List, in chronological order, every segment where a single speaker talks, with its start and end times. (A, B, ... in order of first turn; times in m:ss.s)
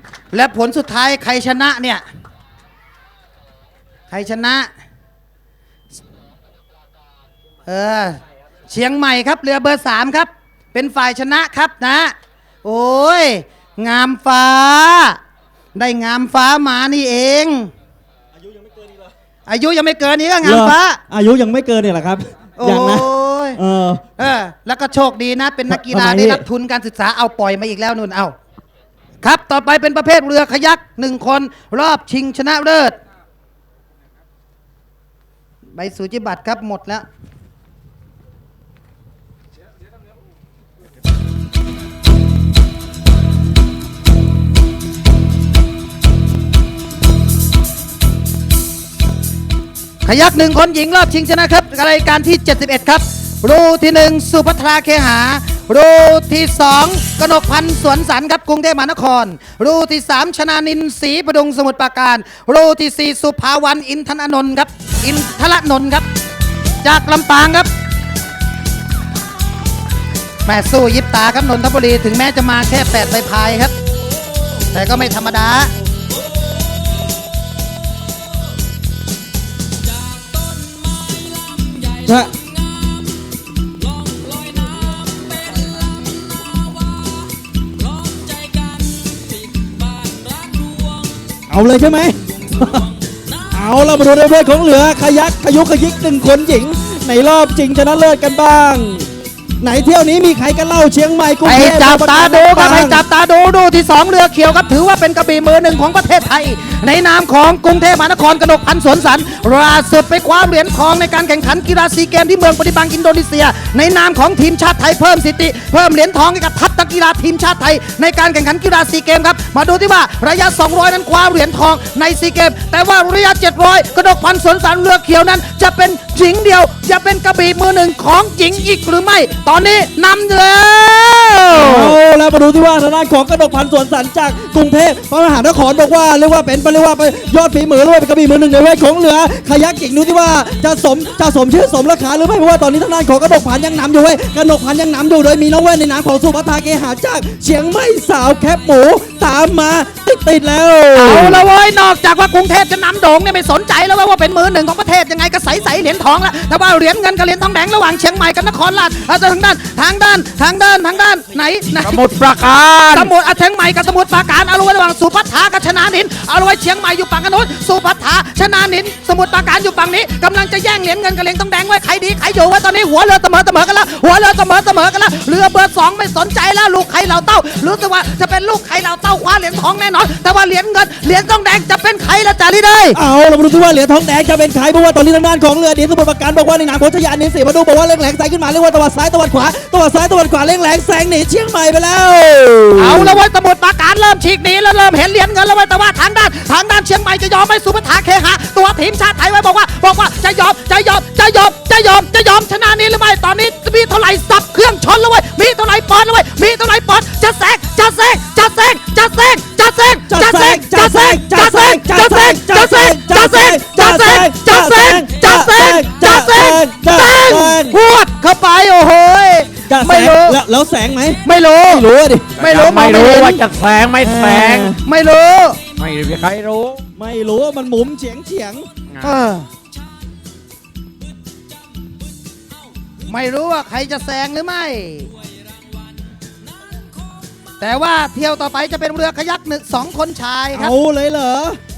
0:00.3-0:02.0 A
0:04.1-0:04.7 A
0:07.7-0:15.2 A
0:15.8-0:17.7 A
0:19.5-0:21.0 A
0:20.4-0:24.0 B
0:22.6-0:23.6 A
0:24.2-0:28.4 A
0:25.7-0:26.4 B
0:29.2-0:33.0 A
0:35.8-0:37.0 A
0:50.0-1:06.1 A
1:06.8-1:07.7 A
1:10.5-1:13.7 A
1:14.7-1:15.7 A
1:21.9-1:22.3 B
1:31.5-1:32.9 B
1:33.5-1:39.1 B
1:39.6-1:43.0 B
1:41.4-2:12.0 A
2:11.5-2:31.4 B
2:31.0-2:42.0 A
2:41.8-2:43.1 C
2:42.9-3:03.0 A
3:02.9-3:13.2 B
3:12.8-3:40.4 A
3:30.1-3:37.8 B
3:39.7-3:42.4 B
3:41.2-3:41.8 A
3:42.4-3:44.7 C
3:42.4-3:43.4 A
3:44.0-3:44.8 B
3:44.8-3:45.6 A
3:45.8-3:46.8 C
3:47.0-3:48.7 B
3:49.0-3:49.5 A
3:53.1-3:55.1 A
3:57.6-4:00.7 A
4:00.5-4:01.6 B